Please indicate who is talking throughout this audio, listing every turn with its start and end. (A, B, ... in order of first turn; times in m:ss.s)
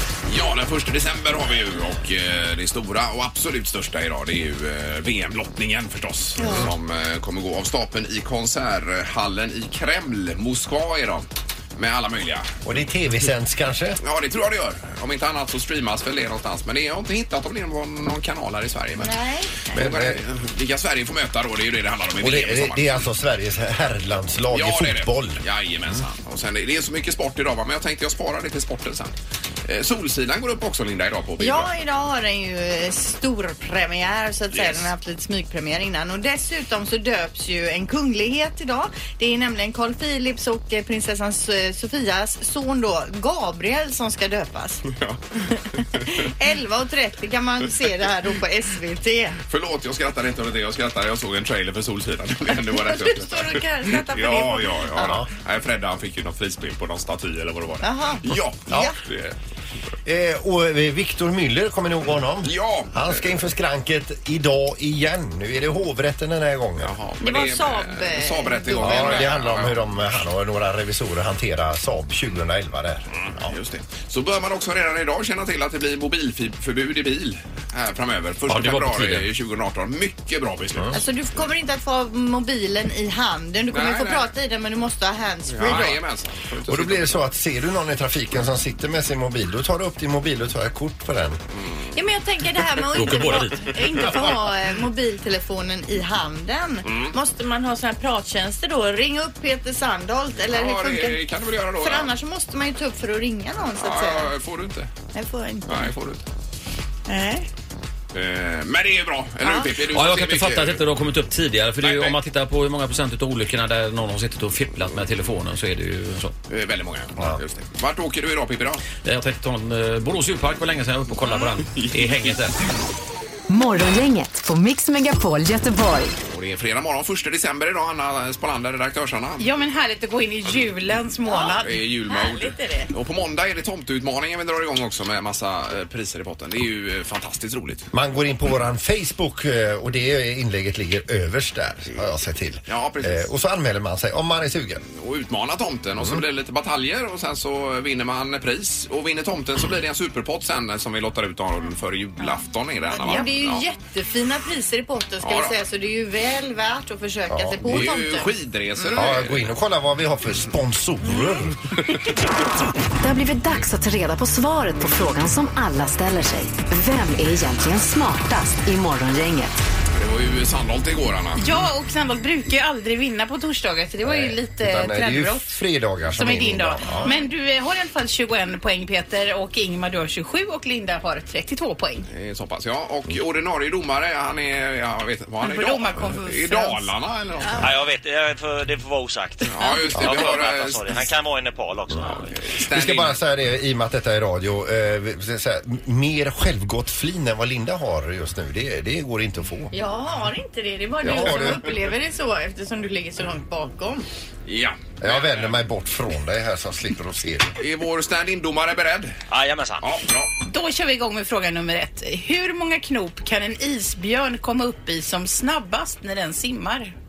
0:00.3-0:12.5 A
0:06.4-0:06.7 B
0:12.6-0:14.0 C
0:14.0-0:23.0 A
0:19.0-0:19.8 B
0:19.8-0:20.2 C
0:22.2-0:25.4 C
0:24.5-0:31.7 A
0:31.4-0:44.8 B
0:34.5-0:34.9 A
0:44.9-0:46.1 A
0:45.8-0:49.4 B
0:49.5-0:59.4 A
0:52.6-0:55.2 B
0:55.0-0:55.3 C
0:57.8-0:59.0 B
1:00.0-1:06.9 C
1:02.4-1:03.4 A
1:06.8-1:10.0 A
1:07.2-1:09.4 B
1:08.8-1:13.5 C
1:13.1-1:21.0 A
1:18.5-1:19.3 D
1:20.9-1:26.0 B
1:23.7-1:24.3 A
1:25.5-1:27.3 A
1:26.7-1:31.4 C
1:31.6-1:31.9 A
1:31.9-1:41.2 B
1:32.9-1:33.8 D
1:33.2-1:34.0 A
1:36.8-1:37.2 A
1:40.5-1:42.1 A
1:41.8-1:44.3 B
1:43.8-1:44.9 A
1:45.1-1:45.9 B
1:45.7-1:46.2 A
1:47.1-1:47.5 B
1:48.1-1:50.8 A
1:49.4-1:49.7 B
1:49.9-1:56.3 D
1:51.8-1:52.2 A
1:56.5-1:58.8 A
1:59.0-2:02.6 D
2:01.7-2:02.3 A
2:03.5-2:06.2 E
2:06.3-2:09.5 A
2:09.4-2:11.7 F
2:11.3-2:12.9 B
2:11.6-2:17.9 A
2:17.9-2:24.8 C
2:22.7-2:23.3 A
2:24.9-2:33.6 A
2:32.9-2:38.3 B
2:35.2-2:35.6 A
2:37.3-2:37.8 C
2:37.6-2:39.5 A
2:38.9-2:41.6 C
2:43.0-2:49.6 E
2:49.9-2:51.5 A
2:51.4-2:55.6 F
2:54.0-2:57.1 C
2:56.2-3:02.1 F
3:02.1-3:07.7 A
3:05.4-3:06.9 B
3:07.6-3:12.5 G
3:09.5-3:11.1 A
3:12.0-3:13.2 A
3:12.7-3:19.7 C
3:19.7-3:24.1 B
3:21.0-3:21.6 C
3:24.5-3:25.6 A
3:25.0-3:27.6 C
3:27.6-3:29.2 A
3:29.3-3:30.0 G
3:29.8-3:30.3 A
3:30.4-3:36.9 F